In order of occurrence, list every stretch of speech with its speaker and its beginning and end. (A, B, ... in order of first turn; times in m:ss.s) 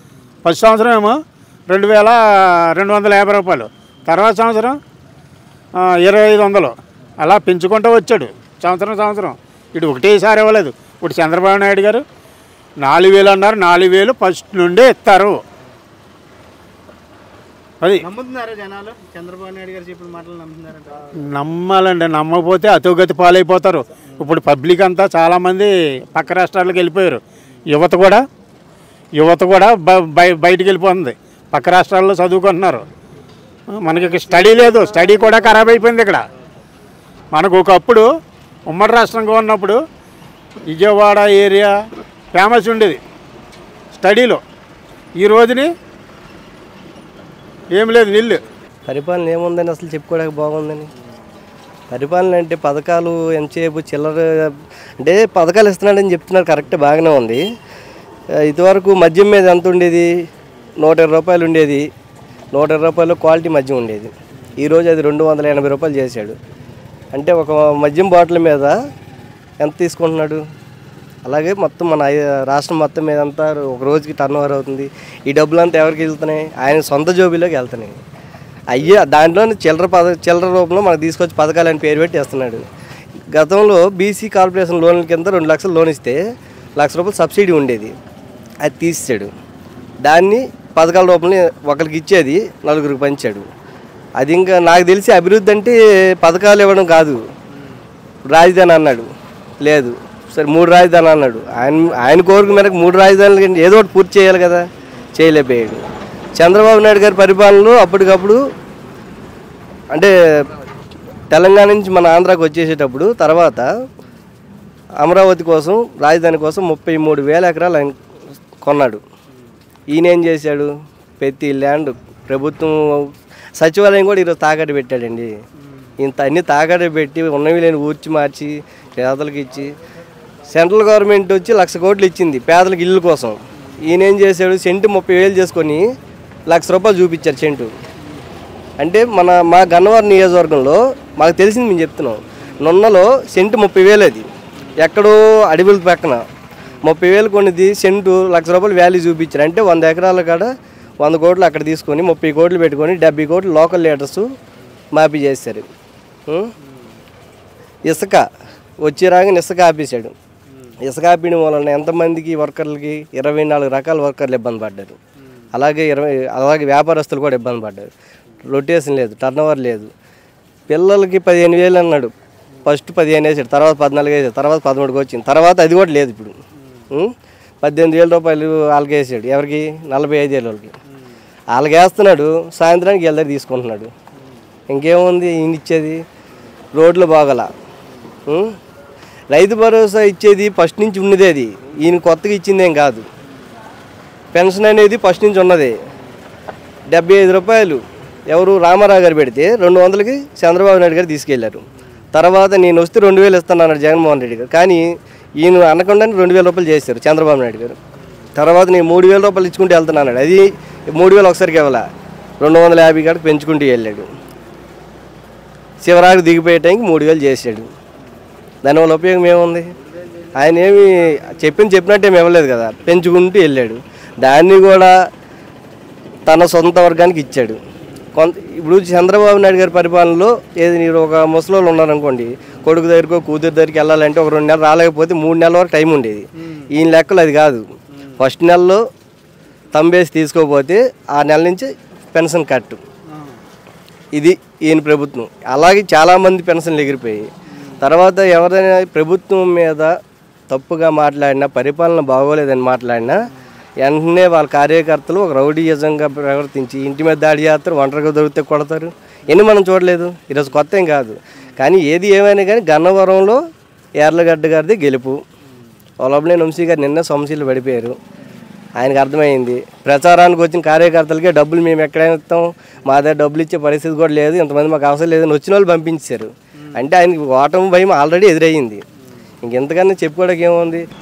0:00.4-0:04.8 A
0:05.8-0:12.0 A
0:12.8-0:15.4 A
0:18.0-0:21.1 B
0:21.3-0:28.2 A
0:29.2-0:32.9 A
0:33.7-0:36.2 A
0:34.0-0:35.5 B
0:37.3-0:38.0 A
0:38.7-0:39.8 A
0:40.7-0:41.7 A
0:42.3-0:43.0 A
0:43.9-0:44.4 A
0:45.2-0:45.7 A
0:47.7-0:48.4 A
0:48.9-0:50.9 C
0:51.9-0:57.4 C
0:58.4-1:00.1 C
1:00.8-1:01.8 C
1:02.5-1:06.4 C
1:07.1-1:08.7 C
1:09.6-1:10.4 C
1:11.2-1:18.0 C
1:18.7-1:22.6 C
1:23.3-1:26.2 C
1:26.8-1:27.9 C
1:28.6-1:29.3 C
1:30.0-1:33.4 C
1:34.2-1:37.2 C
1:38.3-1:39.1 C
1:39.6-1:45.8 C
1:46.4-1:48.4 C
1:51.3-1:53.7 C
1:55.0-1:58.0 C
1:58.6-1:59.0 C
1:59.9-2:00.7 C
2:01.2-2:05.3 C
2:06.0-2:09.7 C
2:10.5-2:15.8 C
2:16.5-2:17.7 C
2:18.8-2:24.3 C
2:24.8-2:26.2 C
2:26.8-2:34.3 C
2:34.9-2:35.6 C
2:36.6-2:36.9 B
2:37.8-2:38.2 C
2:38.8-2:40.1 C
2:40.8-2:45.0 C
2:45.5-2:47.9 C
2:48.5-2:49.9 C
2:50.7-2:52.1 C
2:52.6-2:56.3 C
2:56.9-3:00.7 C
3:01.5-3:03.9 C
3:04.7-3:06.0 C
3:06.7-3:07.5 C
3:08.3-3:08.5 C
3:09.3-3:13.0 C
3:14.3-3:15.7 C
3:16.9-3:24.8 C
3:25.4-3:27.8 C
3:28.4-3:31.8 C
3:32.4-3:34.1 C
3:35.8-3:37.7 C
3:38.6-3:39.7 C
3:40.3-3:44.9 C
3:46.3-3:47.6 C
3:48.2-3:57.6 C
3:56.4-3:56.6 B
3:58.2-3:58.8 C
3:59.7-4:02.8 C
4:03.1-4:03.4 B
4:04.1-4:07.3 C
4:07.8-4:09.9 C
4:10.5-4:13.2 C
4:13.8-4:23.4 C
4:24.0-4:25.2 C
4:26.0-4:28.0 C
4:28.8-4:38.8 C
4:39.4-4:40.8 C